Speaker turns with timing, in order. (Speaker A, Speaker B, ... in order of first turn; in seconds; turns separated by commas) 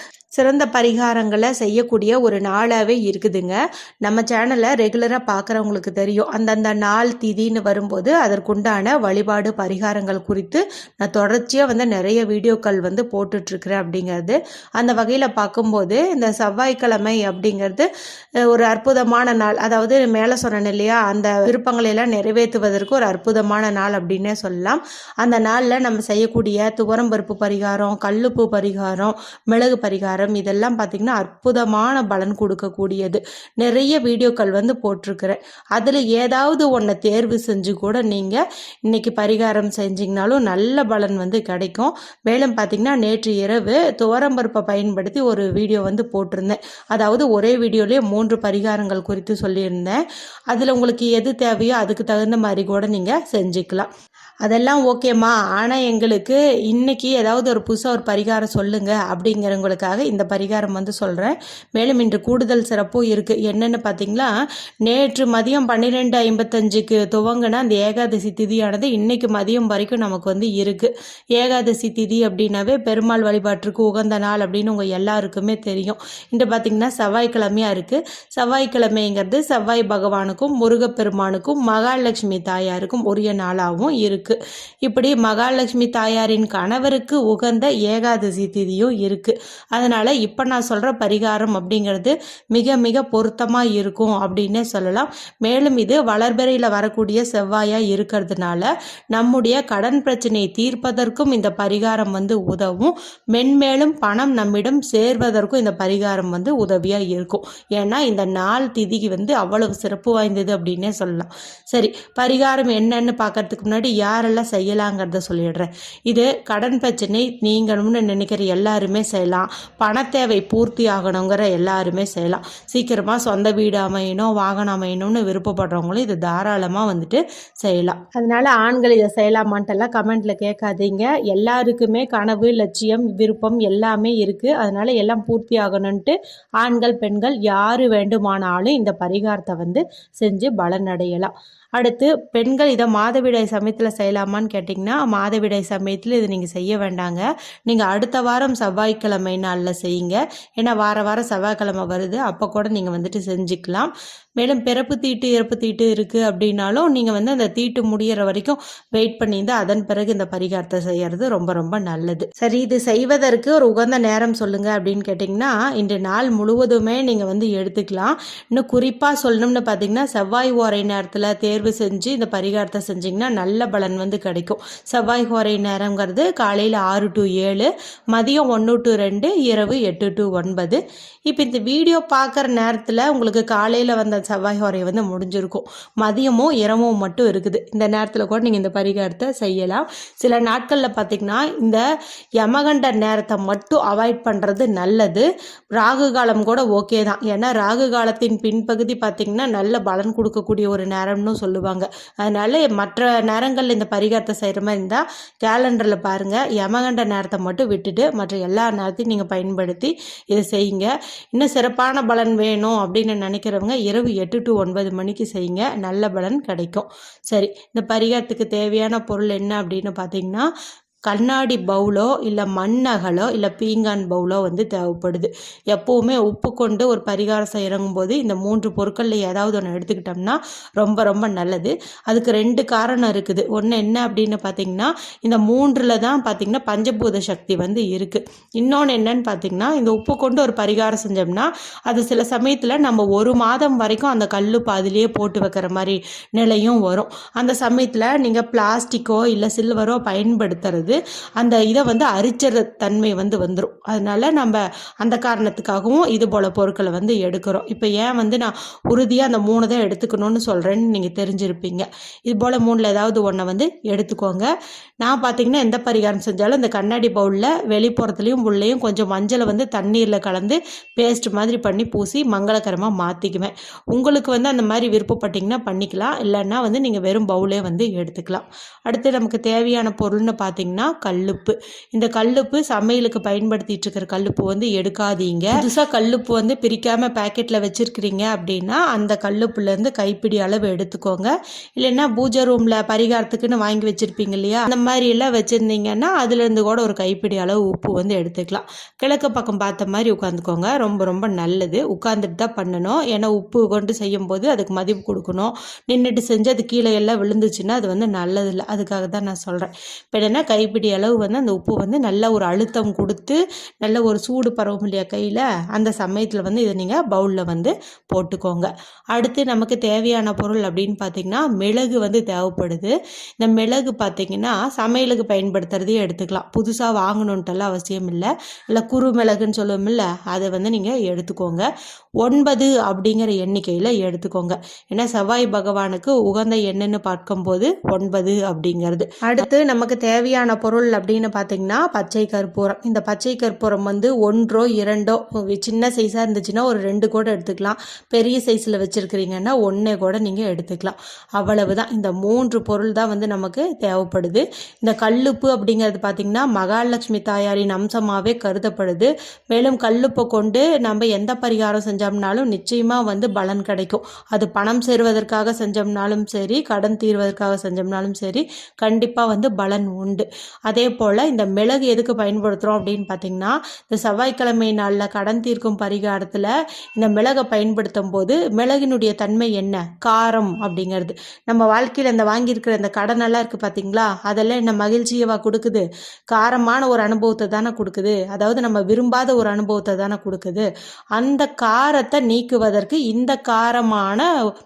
Speaker A: 0.3-17.9, Speaker A: 18.5-50.0, Speaker A: 50.5-53.9, Speaker A: 54.4-64.3, Speaker A: 64.8-191.8, Speaker A: 192.4-220.5, Speaker A: 221.1-264.5, Speaker A: 265.0-331.7, Speaker A: 332.2-394.2